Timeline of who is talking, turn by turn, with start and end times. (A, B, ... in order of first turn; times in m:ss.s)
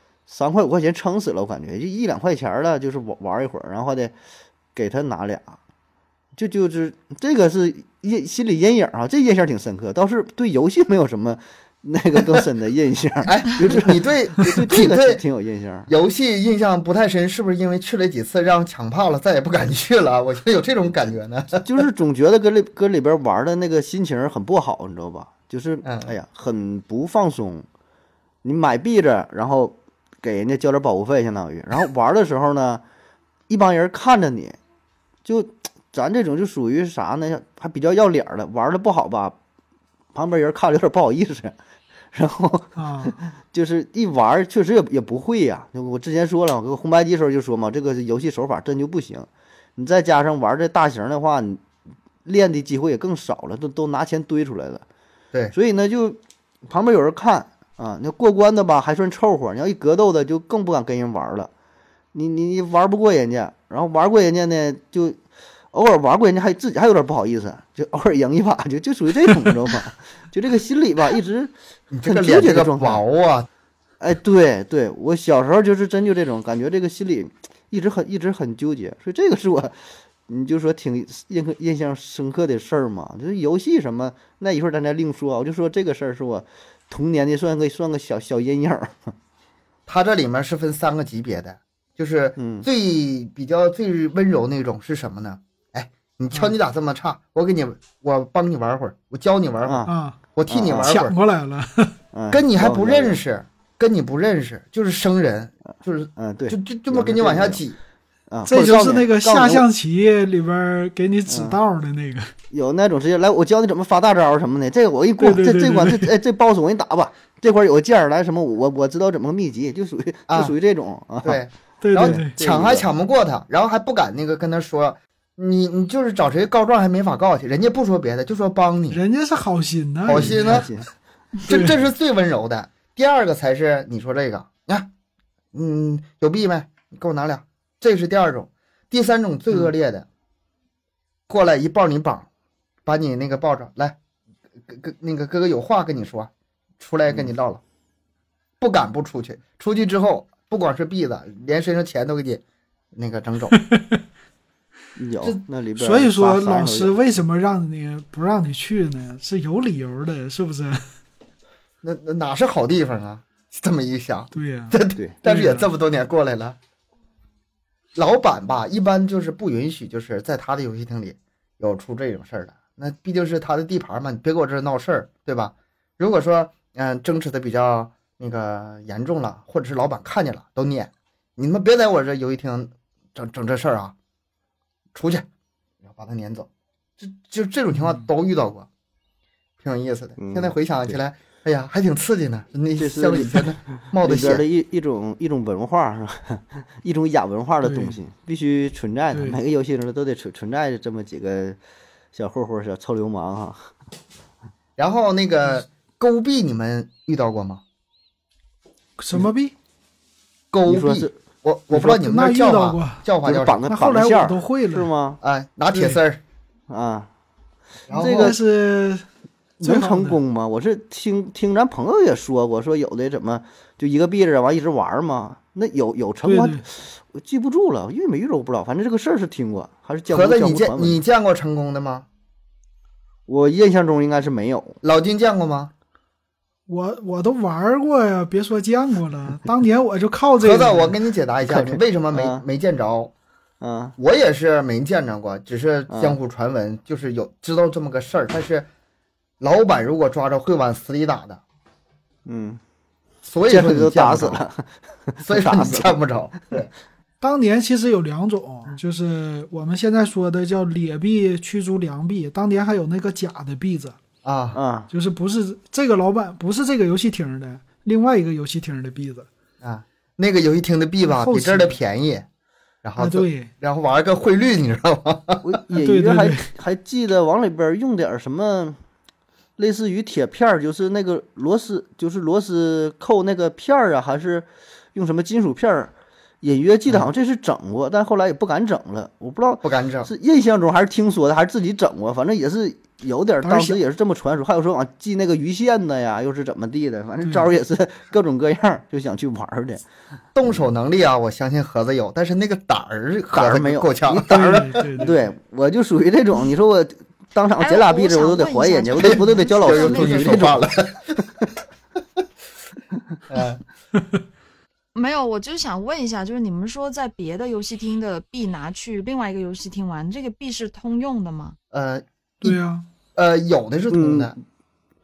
0:00.3-0:04.1 A
0:04.7-0:05.6 A
0:06.4-0:15.9 A
0:13.2-0:15.2 B
0:15.9-0:21.6 B
0:21.6-0:27.6 A
0:25.8-0:26.1 B
0:28.4-0:32.8 A
0:33.5-0:34.6 A
0:35.2-0:39.4 A
0:40.1-0:41.6 A
0:42.1-0:51.6 A
0:42.8-0:43.2 C
0:52.2-0:54.8 A
0:55.5-1:01.5 A
1:02.1-1:05.2 A
1:05.7-1:11.5 A
1:11.9-1:13.5 B
1:12.0-1:13.0 A
1:14.0-1:29.1 A
1:29.9-1:41.1 B
1:32.4-1:32.6 A
1:39.6-1:39.9 A
1:39.9-1:40.2 C
1:40.5-1:41.0 A
1:40.8-1:41.9 C
1:42.1-1:43.2 A
1:42.3-1:47.8 B
1:46.2-1:47.6 A
1:48.3-1:49.6 A
1:48.5-1:52.3 C
1:51.3-1:51.6 A
1:52.5-2:01.4 A
1:55.2-1:56.1 C
2:00.3-2:00.5 B
2:01.2-2:09.0 B
2:01.8-2:02.4 C
2:02.0-2:02.8 A
2:08.9-2:10.7 C
2:10.1-2:10.7 B
2:10.1-2:10.9 A
2:11.4-2:11.7 C
2:11.4-2:14.9 B
2:15.5-2:20.0 B
2:21.3-2:22.3 B
2:22.8-2:24.0 B
2:24.7-2:27.6 B
2:28.6-2:32.4 B
2:32.9-2:33.6 B
2:33.6-2:34.0 C
2:35.0-2:37.1 A
2:35.3-2:40.9 C
2:41.8-2:46.6 B
2:44.3-2:45.7 C
2:47.9-3:03.9 B
3:04.9-3:05.2 B
3:05.8-3:06.5 B
3:07.0-3:08.7 B
3:09.6-3:14.4 B
3:10.2-3:11.0 A
3:12.8-3:21.6 A
3:17.6-3:18.0 C
3:19.1-3:19.4 C
3:22.1-3:23.7 A
3:24.8-3:27.6 B
3:29.0-3:29.5 C
3:30.5-3:33.6 B
3:30.6-3:31.1 A
3:31.7-3:33.0 C
3:33.2-3:35.2 A
3:33.7-3:34.9 C
3:35.2-3:36.2 B
3:35.7-3:36.0 C
3:36.7-3:37.1 A
3:37.9-3:38.4 B
3:37.9-3:38.4 A
3:37.9-3:39.0 C
3:39.6-3:51.0 A
3:39.6-3:40.2 C
3:46.2-3:46.6 C
3:50.1-3:52.0 B
3:53.3-3:54.8 A
3:54.8-3:55.7 B
3:56.7-4:00.9 C
4:00.4-4:03.1 B
4:01.4-4:02.4 A
4:03.6-4:03.9 A
4:04.0-4:08.7 B
4:05.9-4:06.2 A
4:09.4-4:11.4 B
4:12.2-4:12.6 A
4:13.2-4:14.4 B
4:13.5-4:15.9 A
4:15.2-4:16.7 B
4:17.2-4:24.0 C
4:24.2-4:24.6 B
4:24.5-4:24.9 A
4:24.9-4:29.3 C
4:29.6-4:32.3 B
4:31.0-4:31.8 C
4:32.8-4:35.6 B
4:33.0-4:33.5 C
4:35.4-4:38.8 A
4:35.7-4:36.5 C
4:39.6-4:59.8 A
4:49.6-4:50.1 B
5:00.3-5:05.1 B
5:03.3-5:10.7 A
5:04.2-5:05.2 C
5:07.6-5:10.4 D
5:09.0-5:11.1 B
5:13.3-5:13.6 B
5:14.9-5:21.6 D
5:21.7-5:22.6 B
5:22.4-5:22.8 C
5:23.1-5:24.3 B
5:23.9-5:24.4 A